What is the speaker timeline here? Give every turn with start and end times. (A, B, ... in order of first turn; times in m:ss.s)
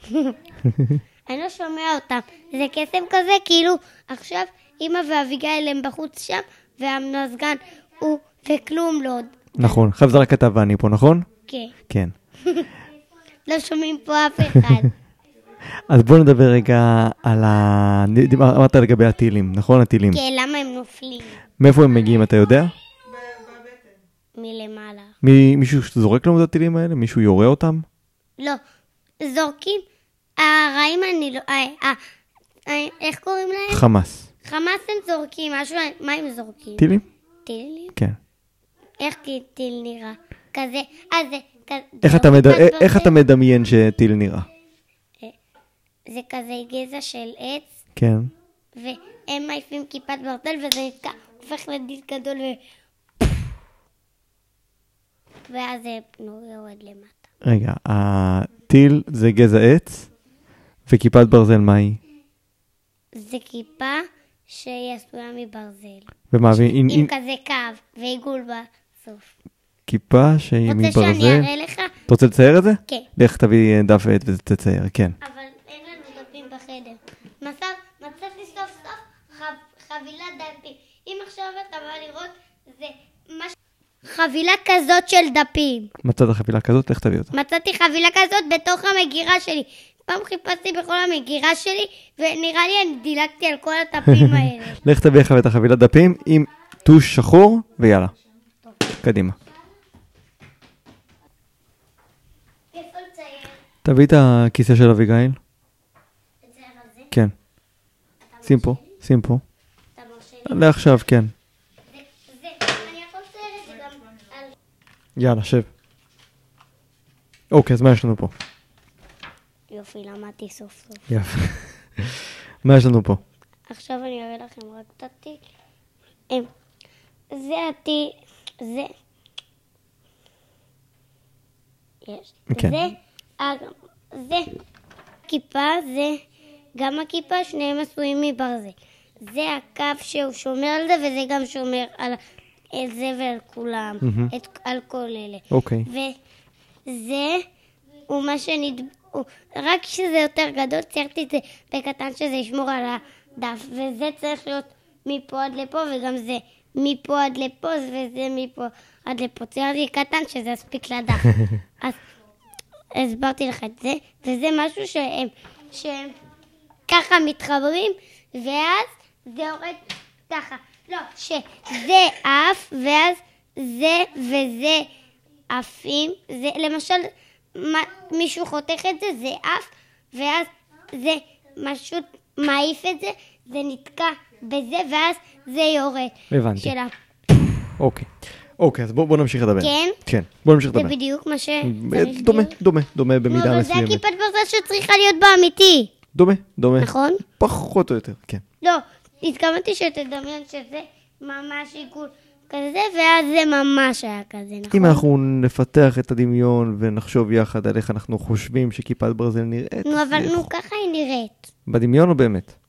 0:00.1-0:00.4 A
0:00.6-0:01.0 B
0:01.3-0:09.9 A
0:09.6-0:11.3 B
0:11.5-0:11.7 A
0:11.9-0:12.2 B
0:13.5-0:14.9 A
0:15.9-0:20.2 B
0:20.1-0:21.4 A
0:21.6-0:22.7 B
0:24.4-0:25.1 A
0:25.2-0:27.9 B
0:29.2-0:29.8 A
0:30.4-0:32.0 A
0:32.7-0:33.8 A
0:33.7-0:34.3 B
0:34.4-0:36.9 A
0:36.8-0:37.0 B
0:37.4-0:37.9 A
0:39.0-0:43.2 A
0:42.0-0:44.5 B
0:46.1-0:47.7 A
0:48.0-0:48.3 B
0:48.7-0:52.6 A
0:55.5-0:57.3 A
0:57.4-1:00.1 B
1:00.9-1:02.0 B
1:03.1-1:09.3 A
1:06.3-1:07.1 B
1:09.9-1:11.5 B
1:10.6-1:12.0 A
1:12.1-1:15.2 B
1:15.2-1:25.9 A
1:26.0-1:27.3 B
1:27.3-1:34.8 A
1:34.1-1:38.1 B
1:39.0-1:39.4 B
1:42.7-1:43.6 A
1:43.8-1:45.4 B
1:46.4-1:47.1 A
1:48.2-1:48.9 A
1:48.4-1:49.4 B
1:50.0-1:50.8 A
1:50.4-1:51.3 B
1:51.9-1:54.5 A
1:55.2-1:55.7 B
1:57.5-1:58.3 B
1:59.7-2:01.0 A
2:01.1-2:03.2 B
2:03.7-2:05.4 A
2:07.3-2:08.9 A
2:12.0-2:14.5 A
2:12.5-2:12.8 B
2:15.3-2:16.2 A
2:16.8-2:22.2 A
2:22.7-2:26.1 A
2:24.0-2:24.3 B
2:25.5-2:25.9 B
2:26.9-2:27.4 A
2:28.1-2:42.0 A
2:42.9-2:46.2 A
2:46.9-2:54.9 A
2:55.5-3:06.9 A
3:06.3-3:06.7 B
3:07.8-3:10.9 B
3:09.6-3:10.0 A
3:10.7-3:12.6 A
3:11.6-3:14.0 B
3:13.3-3:15.9 A
3:16.1-3:18.4 B
3:16.8-3:17.2 A
3:18.6-3:25.0 A
3:24.7-3:30.5 B
3:29.8-3:31.5 A
3:31.7-3:32.5 B